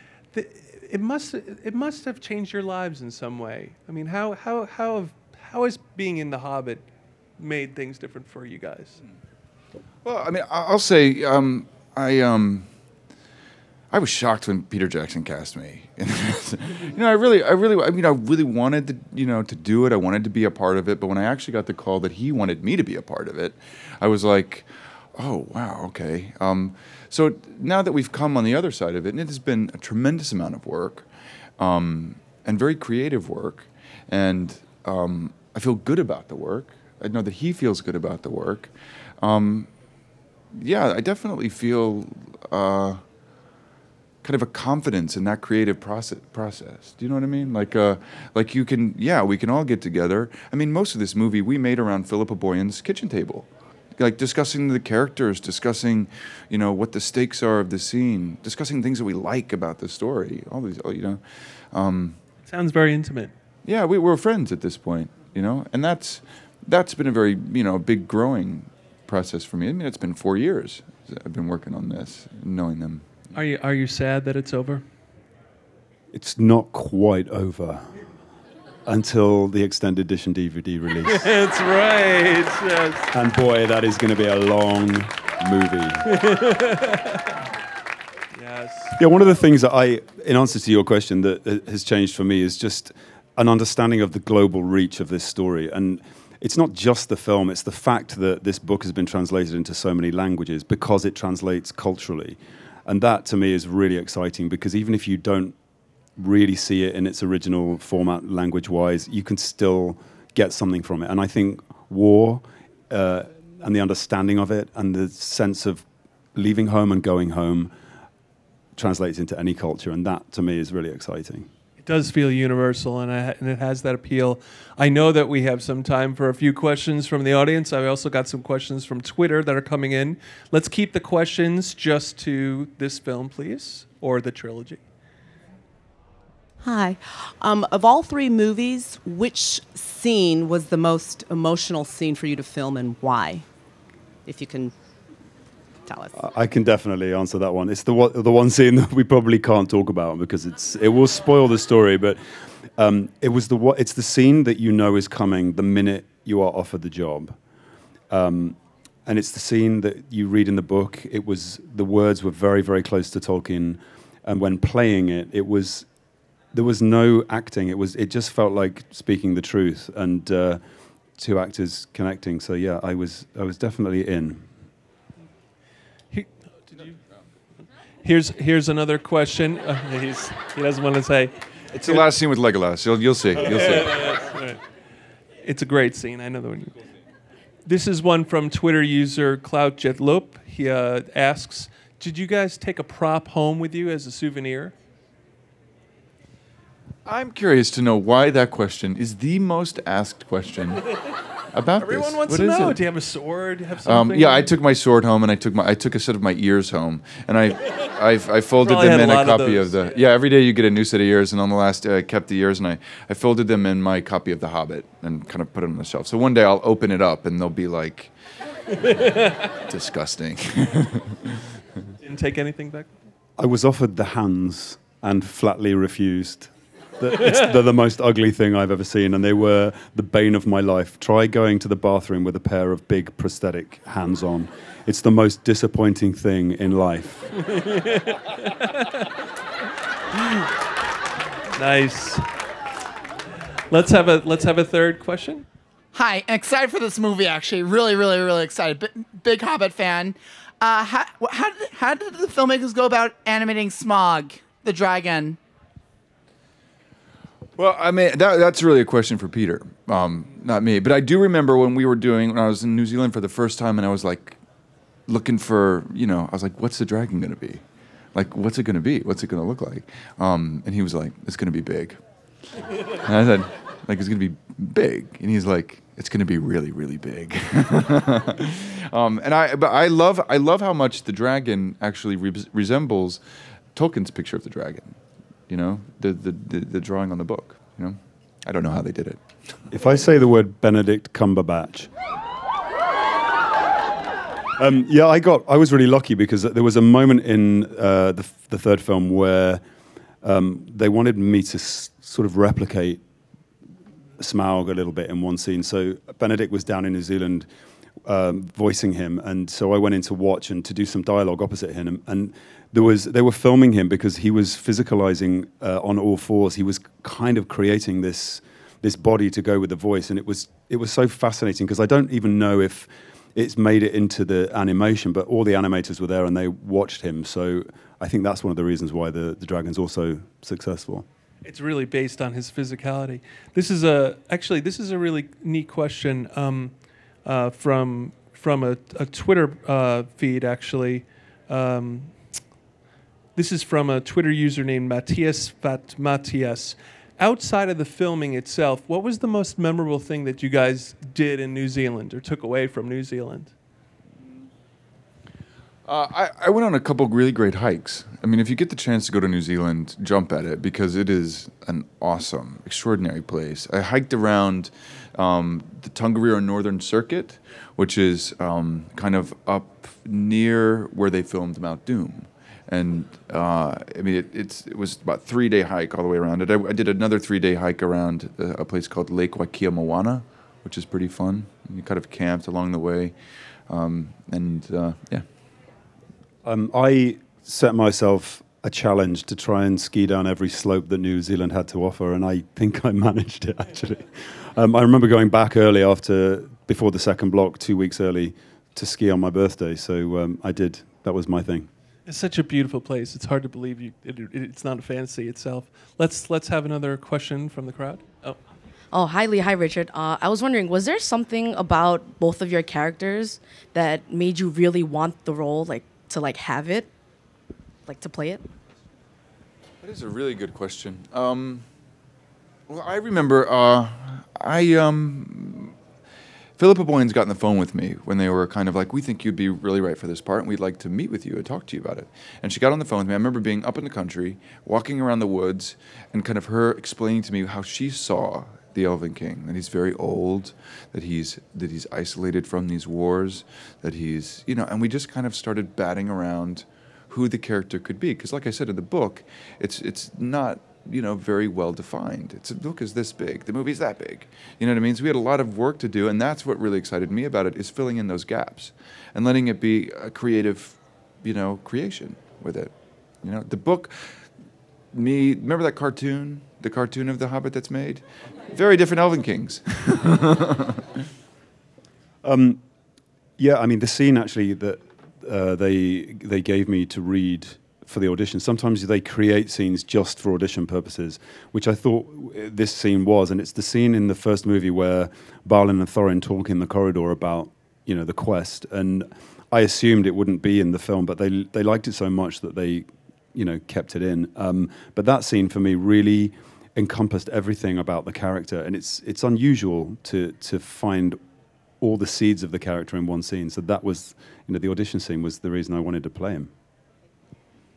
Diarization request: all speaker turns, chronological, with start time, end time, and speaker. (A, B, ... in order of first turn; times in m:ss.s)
0:00.3-0:06.8 A
0:07.4-0:09.0 A
0:10.0-0:12.7 B
0:13.9-0:31.0 B
0:31.6-0:39.7 B
0:40.5-0:43.0 B
0:44.2-1:01.2 B
1:01.7-1:02.2 B
1:02.4-1:03.3 A
1:03.6-1:13.1 B
1:13.3-1:14.8 A
1:16.1-1:18.0 C
1:18.8-1:21.3 C
1:21.0-1:23.1 A
1:23.1-1:26.1 C
1:26.1-1:27.3 A
1:28.3-1:29.0 A
1:29.0-1:45.6 C
1:46.2-1:57.7 C
1:58.7-2:01.5 C
2:01.8-2:14.8 A
2:16.6-2:23.5 D
2:24.2-2:24.7 D
2:25.8-2:26.2 D
2:26.1-2:32.2 C
2:32.8-2:37.4 C
2:38.1-2:45.9 C
2:46.5-2:50.6 C
2:51.2-2:54.4 C
2:56.1-2:56.9 A
2:58.0-3:01.4 A
3:01.7-3:04.1 B
3:03.4-3:04.6 A
3:05.4-3:06.8 A
3:07.6-3:14.7 A
3:17.0-3:21.0 B
3:21.5-3:22.8 B
3:21.8-3:24.5 A
3:23.8-3:38.1 B
3:28.6-3:29.8 A
3:38.8-3:39.4 A
3:39.5-3:41.2 B
3:42.0-3:42.9 A
3:43.4-3:57.3 C
3:57.4-3:59.1 A
4:01.6-4:02.2 A
4:03.7-4:05.4 A
4:05.9-4:15.4 E
4:17.6-4:24.4 B
4:25.1-4:27.6 B
4:28.1-4:32.0 B
4:32.9-4:43.2 B
4:43.7-4:45.0 B
4:45.5-4:49.2 B
4:49.7-4:51.9 C
4:54.6-4:59.6 C
5:00.2-5:03.0 C
5:04.2-5:07.5 C
5:08.0-5:31.0 C
5:31.4-5:42.2 A
5:43.4-5:53.5 A
5:55.8-6:23.1 B
6:23.7-6:25.2 B
6:26.4-6:41.7 C
6:42.1-6:48.4 A
6:48.9-6:56.9 F
6:57.8-6:58.4 F
6:59.8-7:01.6 B
7:02.7-7:05.7 B
7:06.6-7:44.2 B
7:44.9-7:50.8 B
7:52.2-7:52.6 C
7:53.4-8:21.2 C
8:21.8-8:26.5 C